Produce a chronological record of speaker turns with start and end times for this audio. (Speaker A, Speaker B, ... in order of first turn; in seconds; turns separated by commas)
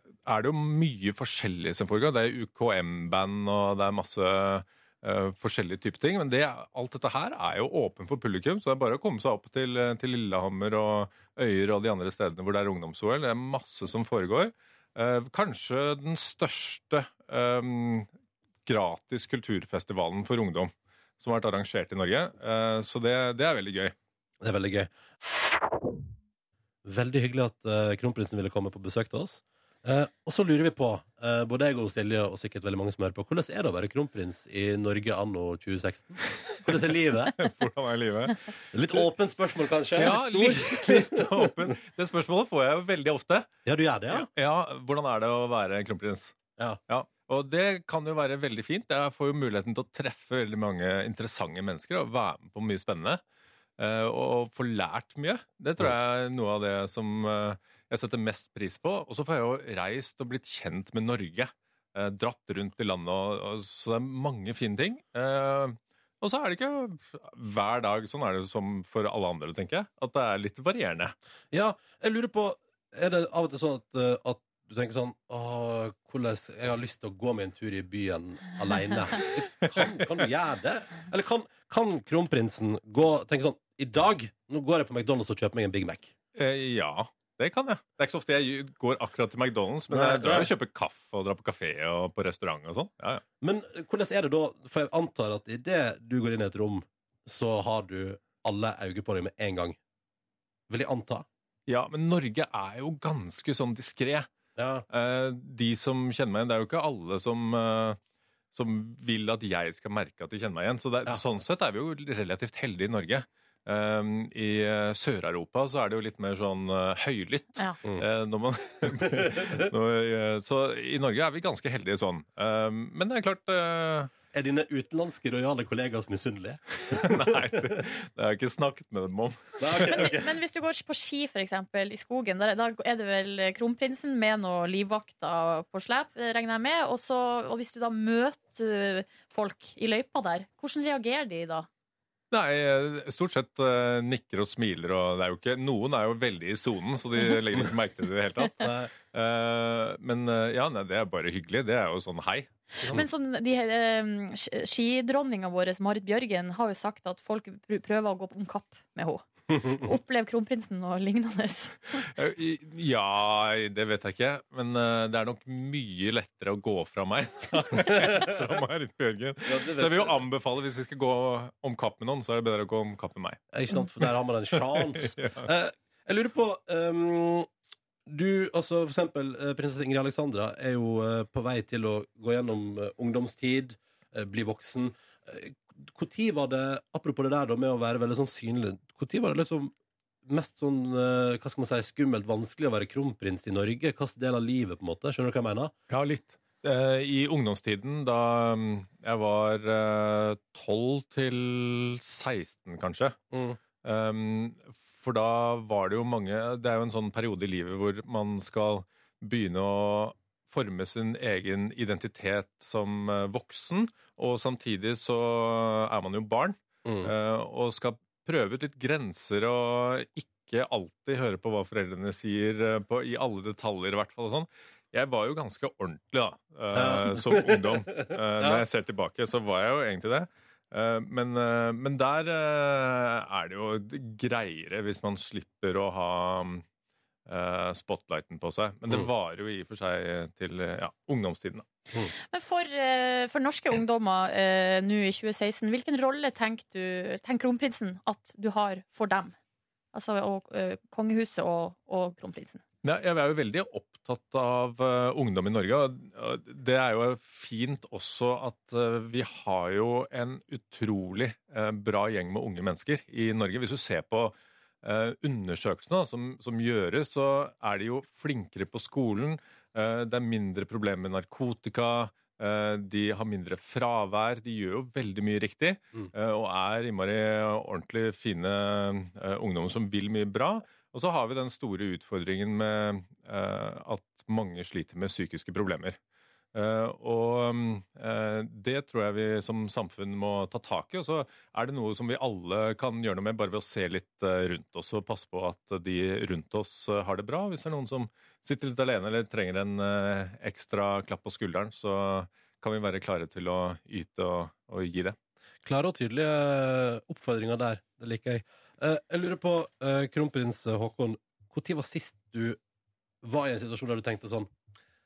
Speaker A: 0.2-18.1, Speaker A: 18.7-23.9, Speaker B: 24.4-25.5, Speaker B: 26.8-37.4, Speaker A: 37.4-38.5, Speaker B: 38.7-41.6, Speaker A: 40.0-43.5, Speaker B: 43.6-44.3, Speaker A: 44.1-53.2, Speaker A: 53.8-71.1, Speaker B: 71.5-86.1, Speaker A: 79.6-79.9, Speaker A: 86.3-93.2, Speaker B: 89.9-90.5, Speaker B: 93.4-99.8, Speaker B: 100.7-101.3, Speaker A: 101.7-104.3, Speaker B: 104.6-104.8, Speaker A: 104.9-108.0, Speaker A: 108.5-124.1, Speaker B: 119.0-119.7, Speaker B: 124.3-127.6, Speaker A: 126.9-129.9, Speaker B: 129.6-130.3, Speaker C: 129.9-141.7, Speaker A: 142.3-152.5, Speaker B: 148.6-148.9, Speaker C: 152.8-162.0, Speaker A: 162.1-173.4, Speaker B: 167.9-168.3, Speaker B: 169.5-170.2, Speaker B: 173.5-177.5, Speaker A: 174.0-175.5, Speaker B: 178.1-189.7, Speaker B: 190.3-195.7, Speaker A: 195.9-203.2, Speaker B: 203.3-203.6, Speaker A: 203.8-236.7, Speaker B: 216.8-217.1, Speaker B: 226.7-228.6, Speaker A: 237.3-241.7, Speaker C: 242.3-249.3, Speaker C: 249.9-252.6, Speaker A: 252.8-286.0, Speaker A: 286.5-305.2, Speaker B: 305.6-312.6, Speaker B: 313.2-314.5